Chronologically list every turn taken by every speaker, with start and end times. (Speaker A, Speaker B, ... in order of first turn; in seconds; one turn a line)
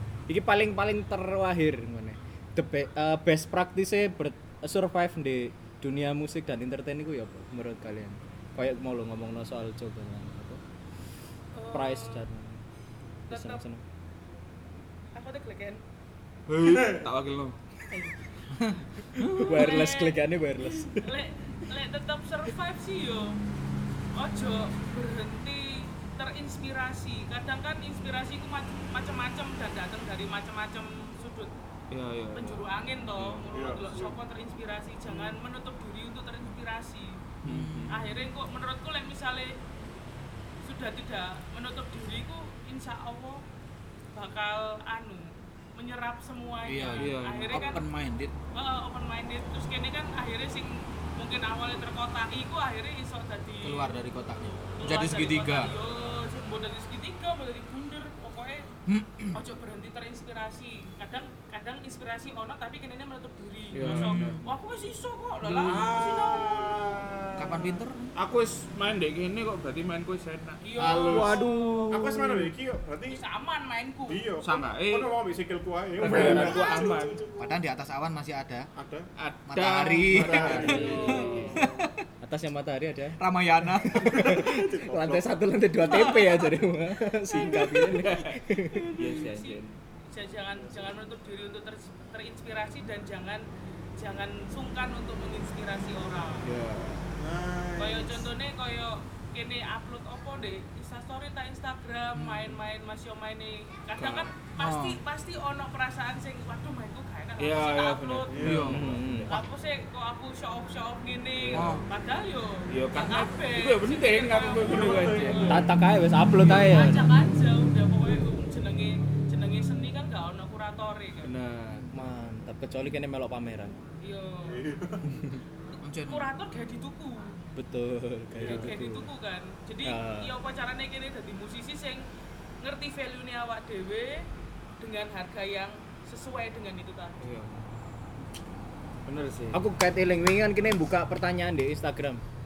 Speaker A: 0.3-10.6
Speaker B: 11.5-12.2
Speaker A: 11.7-12.6
Speaker B: 13.3-13.6
Speaker A: 13.3-13.8
Speaker B: 15.1-15.8
Speaker C: 16.5-17.6
Speaker D: 16.6-17.1
Speaker C: 19.2-19.8
Speaker B: 19.2-20.2
Speaker A: 19.3-21.2
Speaker B: 20.8-23.4
Speaker B: 24.1-31.5
Speaker C: 31.9-32.6
Speaker B: 32.3-37.2
Speaker C: 33.1-33.4
Speaker D: 33.5-34.2
Speaker C: 37.4-38.0
Speaker E: 37.4-38.1
Speaker B: 37.9-39.6
Speaker B: 40.6-43.4
Speaker B: 44.1-47.9
Speaker E: 46.6-48.3
Speaker C: 47.0-47.7
Speaker B: 48.5-54.0
Speaker E: 53.6-55.7
Speaker B: 54.7-58.7
Speaker E: 58.9-59.4
Speaker B: 59.3-66.8
Speaker C: 63.7-64.4
Speaker E: 63.8-64.4
Speaker D: 65.5-67.8
Speaker C: 65.6-65.8
Speaker E: 67.4-68.1
Speaker C: 68.1-71.8
Speaker B: 70.6-72.0
Speaker D: 70.8-73.2
Speaker B: 73.1-74.3
Speaker D: 74.1-77.6
Speaker C: 74.4-75.1
Speaker C: 76.0-77.2
Speaker B: 76.1-77.0
Speaker E: 77.4-78.7
Speaker D: 78.8-79.1
Speaker C: 79.2-81.6
Speaker E: 79.5-81.0
Speaker D: 80.1-81.9
Speaker B: 80.6-81.5
Speaker E: 81.6-81.9
Speaker A: 82.2-89.2
Speaker E: 83.2-84.2
Speaker D: 83.9-85.4
Speaker E: 85.9-86.3
Speaker C: 87.6-88.4
Speaker C: 88.9-89.8
Speaker B: 89.0-93.4
Speaker D: 90.5-90.9
Speaker B: 94.0-96.5
Speaker C: 96.4-97.0
Speaker D: 97.2-98.3
Speaker B: 97.8-108.7
Speaker E: 102.2-102.6
Speaker C: 104.0-104.3
Speaker E: 104.6-105.0
Speaker C: 107.4-109.3
Speaker D: 108.3-109.0
Speaker E: 108.5-108.8
Speaker A: 108.6-109.3
Speaker B: 109.2-115.7
Speaker C: 111.4-111.8
Speaker E: 111.5-111.9
Speaker C: 112.7-115.7
Speaker D: 114.6-115.7
Speaker A: 115.5-117.1
Speaker B: 116.4-121.3
Speaker C: 121.2-121.8
Speaker A: 121.9-123.8
Speaker B: 124.0-124.6
Speaker D: 124.4-125.2
Speaker E: 125.8-126.3
Speaker B: 126.0-127.4
Speaker A: 127.5-129.1
Speaker D: 128.3-128.7
Speaker B: 128.4-132.0
Speaker A: 129.8-130.3
Speaker B: 132.6-134.3
Speaker B: 134.8-137.2
Speaker C: 137.2-137.6
Speaker C: 139.1-139.6
Speaker A: 139.5-142.2